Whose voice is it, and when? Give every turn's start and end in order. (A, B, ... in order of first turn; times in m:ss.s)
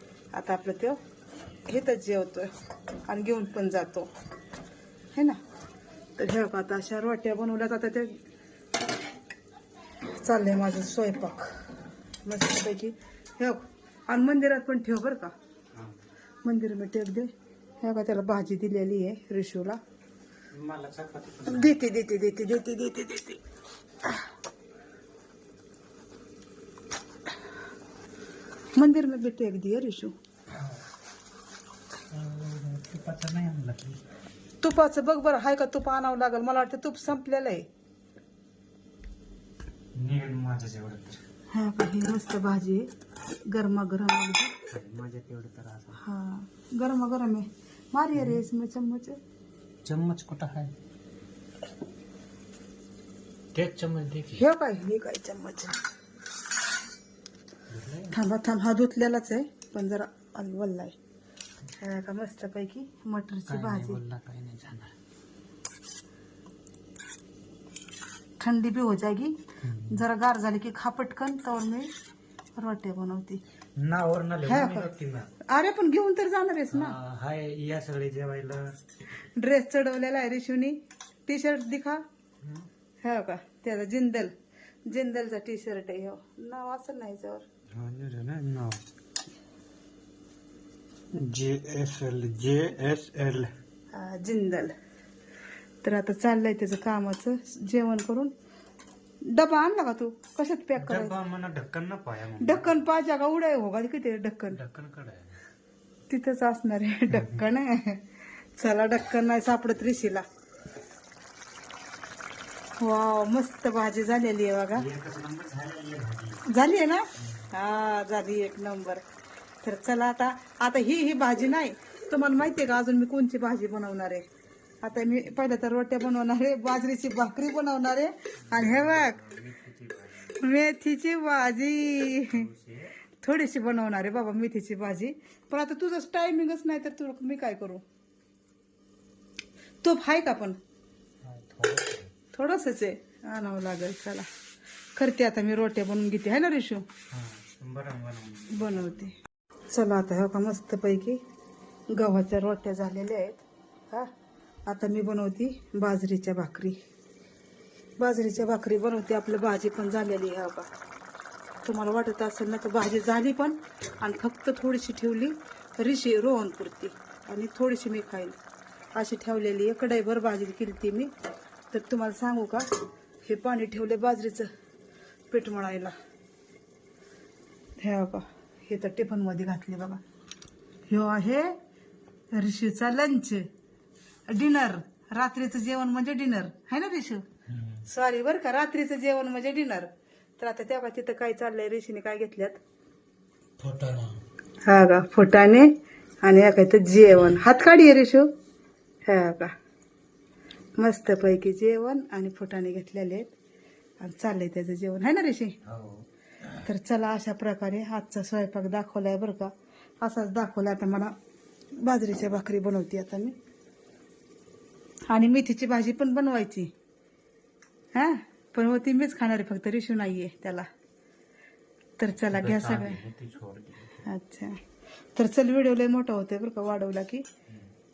0:00.3-0:01.0 A
0:01.7-0:02.5 A
0:03.1-0:04.1 A
0:05.1-0:05.4 A
0:06.2-0:08.2 A
0:10.2-0:11.5 A
0:12.2-0:15.3 A
0:16.4-0:19.8 A
0:20.5-0:21.8 B
0:21.5-0:23.4 A
0:28.8-0:30.2 A
0:30.5-0:30.8 B
0:32.1-0:34.0 B
0:34.6-0:37.6 A
0:40.0-0:41.2 B
0:41.5-0:42.9 A
0:43.5-0:44.6 A
0:44.7-0:46.0 B
0:46.0-0:49.2 A
0:48.2-0:48.4 B
0:49.8-0:50.7 B
0:53.5-0:54.5 B
0:54.3-0:55.8 A
0:57.7-0:58.2 B
0:58.1-1:01.0 A
1:01.8-1:04.0 A
1:03.5-1:05.0 B
1:08.4-1:11.9 A
1:09.6-1:10.0 B
1:12.6-1:13.4 A
1:13.8-1:15.3 B
1:14.5-1:14.9 A
1:15.4-1:17.0 A
1:16.7-1:18.8 B
1:19.2-1:22.0 A
1:22.4-1:22.7 B
1:23.0-1:24.3 A
1:24.9-1:27.5 A
1:27.7-1:28.8 B
1:31.1-1:33.5 B
1:33.9-1:34.7 A
1:35.8-1:38.3 A
1:39.2-1:41.2 A
1:40.8-1:42.8 B
1:42.4-1:44.6 A
1:44.5-1:45.4 B
1:46.1-1:50.2 A
1:47.1-1:47.4 B
1:52.8-1:54.9 A
1:54.7-1:56.5 B
1:56.5-1:59.0 A
1:57.2-1:57.5 B
1:59.6-2:04.2 A
2:04.8-2:09.2 A
2:08.5-2:10.4 B
2:10.3-2:12.5 A
2:12.3-2:13.0 B
2:13.2-2:17.8 A
2:19.8-2:20.6 A
2:21.2-2:22.1 B
2:22.3-2:24.3 A
2:25.0-2:26.9 A
2:27.1-2:28.9 B
2:28.5-2:29.2 A
2:29.7-2:31.2 A
2:31.9-2:34.1 A
2:34.7-2:36.8 A
2:38.0-2:40.7 A
2:41.6-2:48.4 A
2:49.0-2:51.1 A
2:51.7-2:52.7 A
2:53.2-2:54.5 A
2:55.3-2:55.9 A
2:57.8-3:00.0 A
3:00.9-3:01.6 A
3:02.3-3:03.5 A
3:04.3-3:07.3 A
3:07.5-3:07.9 B
3:07.9-3:12.6 A
3:13.6-3:14.2 B
3:14.6-3:15.7 A
3:16.2-3:18.3 A
3:19.1-3:19.5 A
3:20.8-3:23.3 A
3:24.0-3:25.6 A
3:25.6-3:26.1 B
3:26.6-3:31.1 A
3:31.8-3:33.4 A
3:35.1-3:36.7 A
3:37.9-3:40.7 A
3:42.0-3:43.0 A
3:42.3-3:44.1 B
3:44.0-3:44.6 A
3:45.2-3:47.2 A